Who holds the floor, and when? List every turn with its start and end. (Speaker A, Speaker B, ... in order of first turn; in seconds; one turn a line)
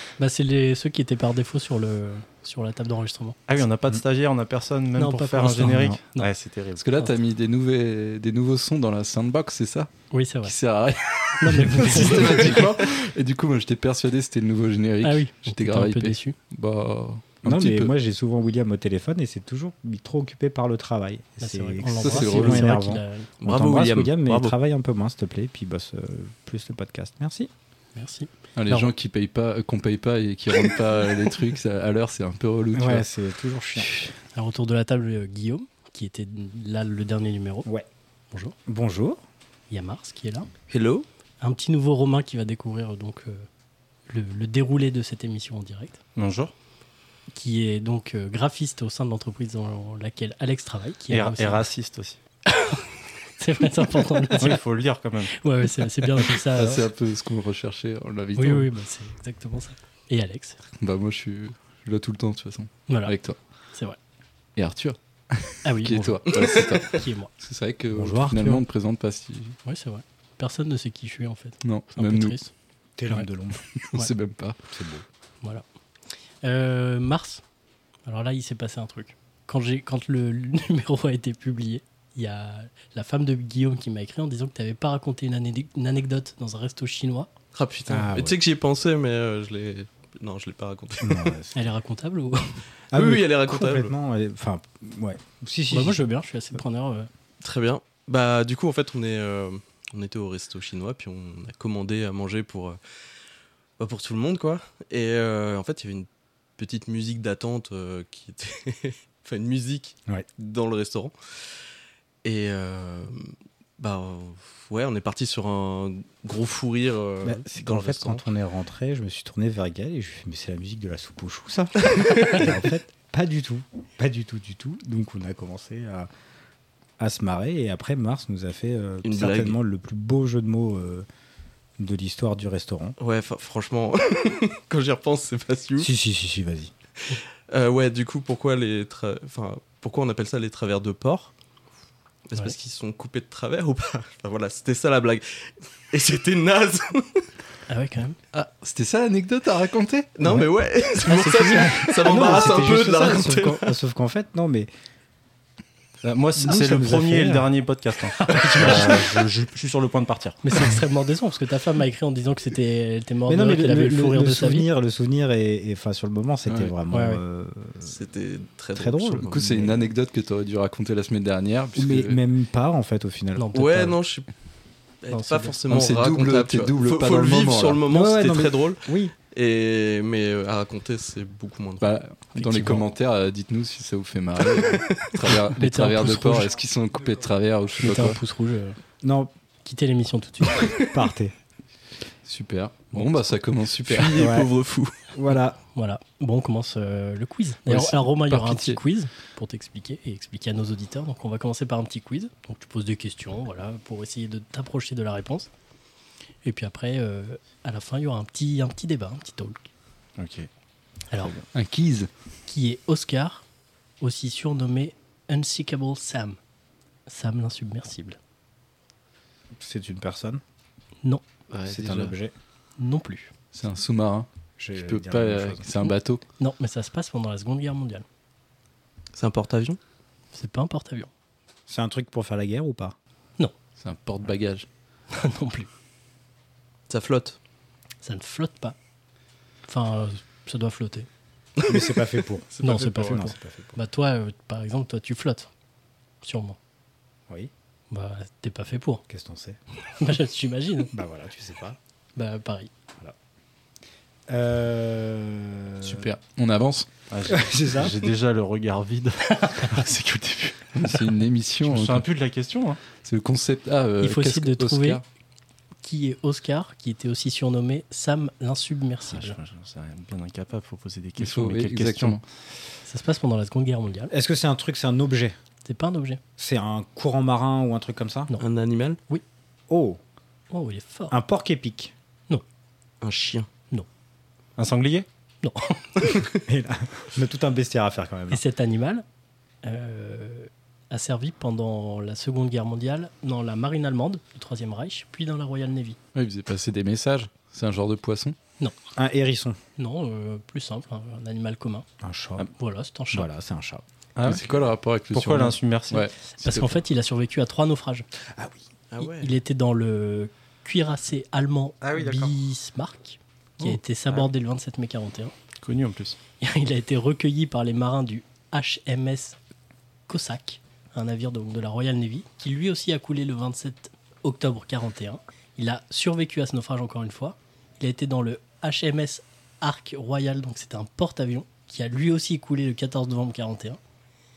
Speaker A: 0.2-3.4
Speaker B: 3.5-6.8
Speaker A: 5.0-6.3
Speaker C: 5.6-6.0
Speaker D: 6.8-9.9
Speaker A: 10.1-10.6
Speaker D: 10.4-17.9
Speaker A: 11.4-12.7
Speaker A: 15.0-16.4
Speaker C: 17.4-27.5
Speaker A: 21.4-23.3
Speaker D: 22.0-22.8
Speaker E: 23.4-24.6
Speaker A: 27.9-28.9
Speaker D: 28.6-33.1
Speaker C: 32.7-33.9
Speaker A: 34.3-37.7
Speaker C: 38.7-39.2
Speaker A: 39.7-40.5
Speaker E: 40.7-41.1
Speaker A: 41.4-43.5
Speaker A: 44.1-46.0
Speaker B: 46.2-46.5
Speaker A: 47.3-51.7
Speaker B: 51.1-52.2
Speaker A: 52.5-54.6
Speaker B: 54.3-55.4
Speaker A: 55.3-56.9
Speaker D: 56.5-58.7
Speaker A: 58.4-60.6
Speaker D: 60.8-63.4
Speaker A: 62.9-63.1
Speaker D: 64.6-69.6
Speaker A: 65.7-67.3
Speaker E: 66.3-67.0
Speaker C: 67.9-68.7
Speaker A: 69.7-72.5
Speaker D: 71.6-72.4
Speaker C: 73.0-73.6
Speaker D: 73.8-74.6
Speaker C: 74.7-75.0
Speaker A: 76.4-77.4
Speaker A: 78.0-87.3
Speaker E: 87.5-91.4
Speaker C: 87.9-88.4
Speaker C: 91.0-91.6
Speaker A: 91.5-92.7
Speaker C: 92.9-96.0
Speaker E: 92.9-93.9
Speaker A: 95.7-97.1
Speaker E: 97.4-102.8
Speaker E: 103.8-111.3
Speaker E: 112.2-118.2
Speaker C: 117.2-126.1
Speaker E: 121.9-122.4
Speaker C: 127.0-131.1
Speaker E: 129.0-129.6
Speaker C: 131.8-133.0
Speaker E: 133.0-135.9
Speaker C: 135.8-136.7
Speaker E: 137.1-141.3
Speaker E: 142.3-147.3
Speaker A: 147.7-148.2
Speaker D: 148.3-150.1
Speaker E: 150.2-153.8
Speaker C: 151.0-154.7
Speaker B: 156.0-160.4
Speaker C: 156.3-157.5
Speaker A: 158.2-159.0
Speaker A: 160.4-164.7
Speaker C: 163.3-168.0
Speaker D: 166.5-166.7
Speaker A: 166.9-167.2
Speaker E: 167.8-169.6
Speaker C: 168.8-169.8
Speaker D: 169.2-172.2
Speaker C: 171.8-173.9
Speaker A: 173.4-173.9
Speaker E: 173.5-174.3
Speaker E: 175.0-182.0
Speaker A: 175.1-175.6
Speaker D: 175.7-177.8
Speaker C: 177.9-179.1
Speaker D: 181.8-188.2
Speaker A: 182.4-182.8
Speaker E: 184.4-185.3
Speaker A: 185.5-186.5
Speaker A: 187.8-188.8
Speaker C: 189.0-189.3
Speaker A: 189.7-190.7
Speaker E: 190.6-190.9
Speaker C: 190.8-191.3
Speaker D: 192.3-194.1
Speaker E: 193.9-194.9
Speaker C: 194.1-194.5
Speaker C: 195.1-195.6
Speaker A: 195.7-205.5
Speaker D: 197.7-198.8
Speaker A: 206.4-209.7
Speaker B: 210.2-210.5
Speaker A: 211.1-211.4
Speaker D: 211.5-212.1
Speaker A: 212.5-213.4
Speaker A: 214.0-216.4
Speaker A: 217.1-218.2
Speaker C: 219.6-220.4
Speaker D: 221.5-222.1
Speaker C: 221.7-222.3
Speaker A: 222.8-223.3
Speaker D: 223.5-226.2
Speaker C: 224.6-225.9
Speaker A: 226.4-228.1
Speaker E: 229.2-229.8
Speaker A: 230.3-231.1
Speaker C: 231.7-233.0
Speaker D: 233.8-234.7
Speaker A: 235.1-235.7
Speaker E: 236.9-237.4
Speaker A: 238.0-238.8
Speaker A: 239.7-241.1
Speaker C: 241.7-243.8
Speaker A: 242.6-245.5
Speaker A: 246.2-246.6
Speaker A: 247.9-249.1
Speaker C: 249.1-249.6
Speaker A: 249.9-250.9
Speaker C: 250.9-251.8
Speaker A: 252.2-252.7
Speaker C: 254.3-256.1
Speaker D: 255.8-256.9
Speaker B: 257.1-261.0
Speaker C: 257.3-258.0
Speaker A: 259.4-259.8
Speaker D: 260.8-262.1
Speaker B: 261.6-262.8
Speaker D: 262.9-265.0
Speaker A: 264.0-265.0
Speaker A: 265.8-269.4
Speaker B: 269.1-272.2
Speaker D: 271.2-272.2
Speaker A: 272.9-274.1
Speaker C: 274.1-275.4
Speaker A: 275.6-276.2
Speaker C: 276.4-278.3
Speaker E: 278.4-279.0
Speaker C: 279.7-280.0
Speaker A: 280.5-281.2
Speaker C: 281.1-281.9
Speaker E: 283.0-283.5
Speaker B: 284.6-285.1
Speaker A: 285.4-286.2
Speaker C: 286.5-288.4
Speaker A: 288.3-289.1
Speaker A: 289.6-296.0
Speaker D: 296.1-298.4
Speaker C: 299.0-299.6
Speaker A: 299.8-301.9
Speaker C: 302.0-302.5
Speaker A: 302.5-303.3
Speaker C: 303.1-303.8
Speaker B: 304.2-304.6
Speaker D: 304.2-306.8
Speaker B: 305.1-306.1
Speaker A: 306.4-308.1
Speaker C: 308.4-308.6
Speaker E: 308.9-309.3
Speaker A: 309.0-315.3
Speaker B: 311.9-312.3
Speaker B: 313.6-314.3
Speaker B: 315.6-316.2
Speaker A: 316.4-319.4
Speaker A: 320.1-333.8